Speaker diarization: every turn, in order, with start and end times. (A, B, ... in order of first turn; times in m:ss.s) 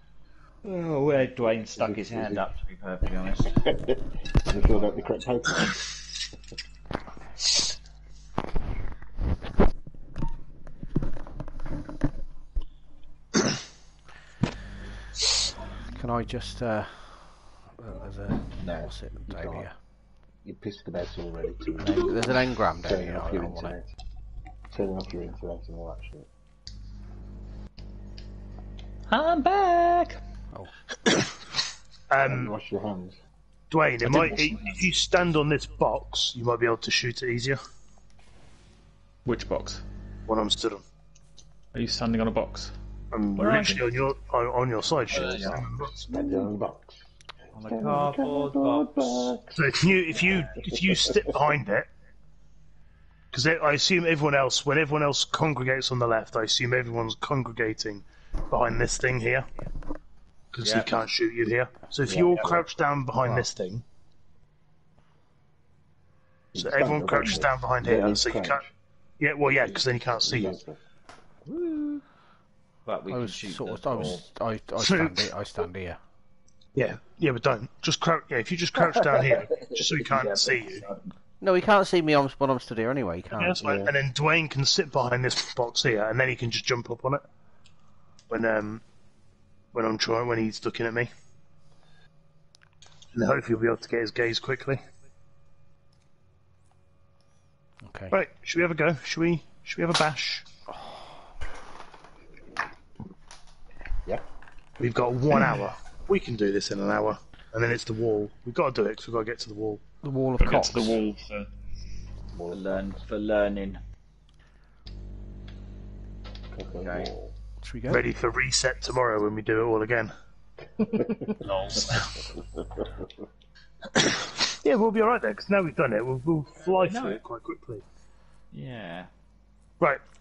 0:00.6-0:03.5 A
0:01.8-0:02.4 B
0:03.6-0:05.9 B
0:15.9-0:19.7 C
0:18.6-0:19.7 B
0:20.4-0:23.9 B
0:21.8-0:23.8 C
0:24.7-0:26.3 B
0:29.1-0:30.2 D
0:31.1-0:31.3 E
0:32.1-0:32.5 E
0:32.2-0:33.2 B
0:33.7-0:37.6 E
0:34.0-0:34.8 D
0:39.2-0:39.8 D
0:40.3-0:40.8 E
0:41.7-0:42.7 D
0:43.1-0:46.5 E
0:43.4-0:44.0 D
0:45.1-0:45.5 D
0:45.2-0:47.0 B
0:47.5-0:49.3 A
0:47.7-0:49.6 B
0:49.5-0:51.9 E
0:53.3-0:59.5 E
1:00.5-1:03.8 E
1:00.6-1:00.9 A
1:02.1-1:02.6 B
1:06.5-1:08.7 B
1:06.6-1:08.6 E
1:09.2-1:10.6 E
1:10.2-1:10.8 B
1:11.4-1:12.0 A
1:12.8-1:14.2 A
1:13.1-1:16.0 C
1:14.8-1:15.3 E
1:16.8-1:20.8 E
1:20.1-1:21.1 A
1:21.4-1:23.6 C
1:23.3-1:27.2 E
1:23.6-1:23.9 B
1:28.3-1:28.8 E
1:29.7-1:31.1 E
1:33.1-1:34.8 E
1:37.8-1:38.1 C
1:38.1-1:40.4 E
1:40.7-1:41.0 C
1:44.8-1:49.8 E
1:50.0-1:51.0 C
1:50.4-1:51.5 D
1:52.3-1:53.0 B
1:52.5-1:53.8 A
1:56.5-1:57.3 B
1:56.6-1:57.1 A
1:57.6-1:58.1 C
1:57.9-2:00.1 E
2:00.8-2:01.3 B
2:01.3-2:02.1 D
2:03.9-2:07.8 E
2:06.8-2:07.2 A
2:08.5-2:09.1 A